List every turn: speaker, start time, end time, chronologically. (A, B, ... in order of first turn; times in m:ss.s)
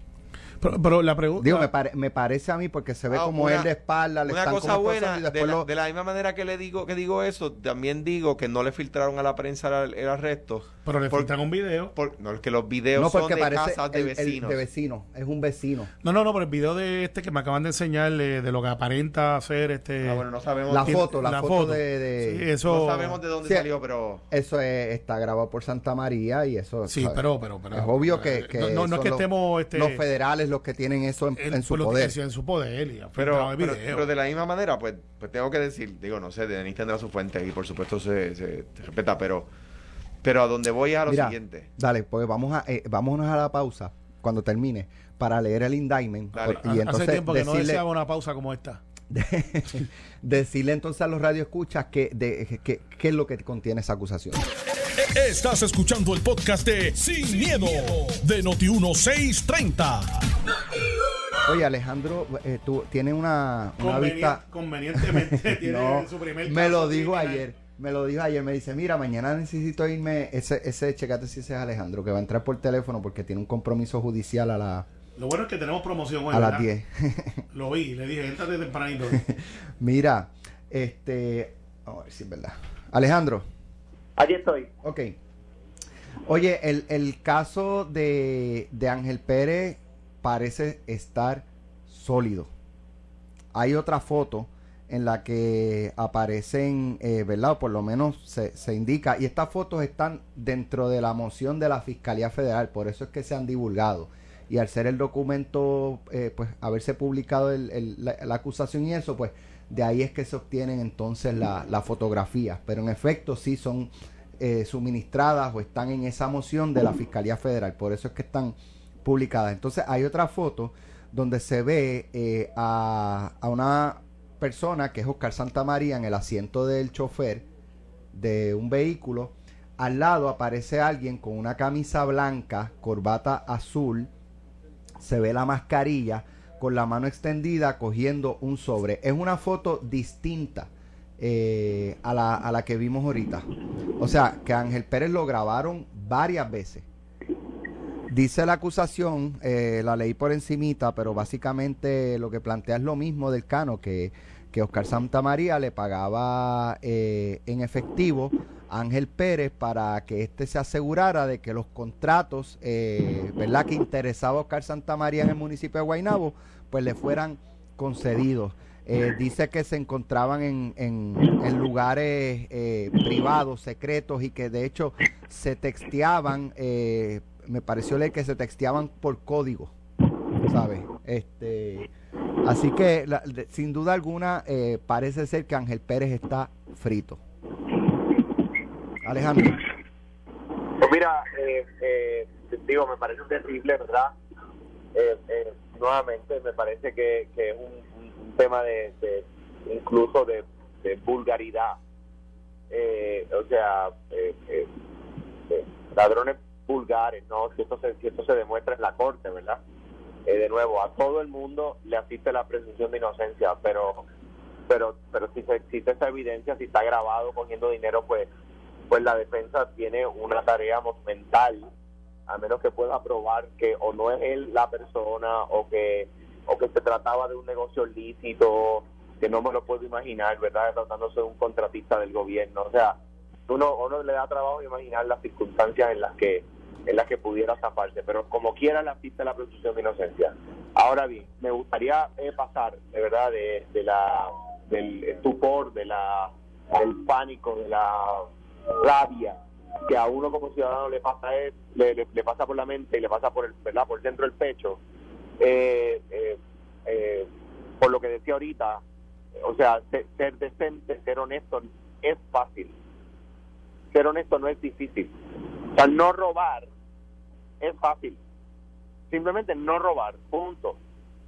0:00.6-0:01.7 A
0:01.4-0:05.7 B
0:03.1-0:03.7 C
0:04.2-0:11.3 C
0:10.8-0:11.9 A
0:11.9-0:14.6 C
0:12.9-0:15.9 B
0:16.0-0:20.2 A
0:20.0-0:21.1 C
0:20.7-0:22.5 B
0:20.8-0:23.2 A
0:22.6-0:24.2 C
0:24.3-0:32.2 B
0:26.9-0:30.0 A
0:31.4-0:34.1 A
0:33.2-0:39.5 C
0:40.2-0:41.7 C
0:41.1-0:47.8 B
0:46.3-0:46.6 C
0:46.4-0:48.8 A
0:49.1-0:54.4 B
0:54.8-1:00.2 D
1:01.4-1:14.8 B
1:03.8-1:07.4 A
1:15.2-1:16.7 A
1:16.3-1:17.4 B
1:17.5-1:19.2 A
1:19.1-1:23.4 B
1:24.2-1:24.7 E
1:24.8-1:25.2 B
1:26.2-1:32.5 B
1:33.5-2:07.4 B
2:08.1-2:14.1 B
2:15.0-2:23.5 B
2:24.0-2:26.8 B
2:28.1-2:59.7 B
3:00.4-3:01.9 B
3:02.4-3:07.2 B
3:09.0-3:09.6 B
3:10.8-3:14.1 E
3:14.9-3:21.8 E
3:22.7-3:24.7 E
3:25.5-3:29.6 E
3:30.3-3:34.0 E
3:34.7-3:38.3 E
3:38.9-3:41.7 E
3:42.3-3:53.0 E
3:53.5-4:14.8 E
4:15.4-4:17.3 E
4:17.8-4:18.8 E
4:19.4-4:22.7 E
4:23.9-4:25.1 E
4:25.7-4:26.7 E
4:27.6-4:28.2 E
4:29.1-4:30.8 E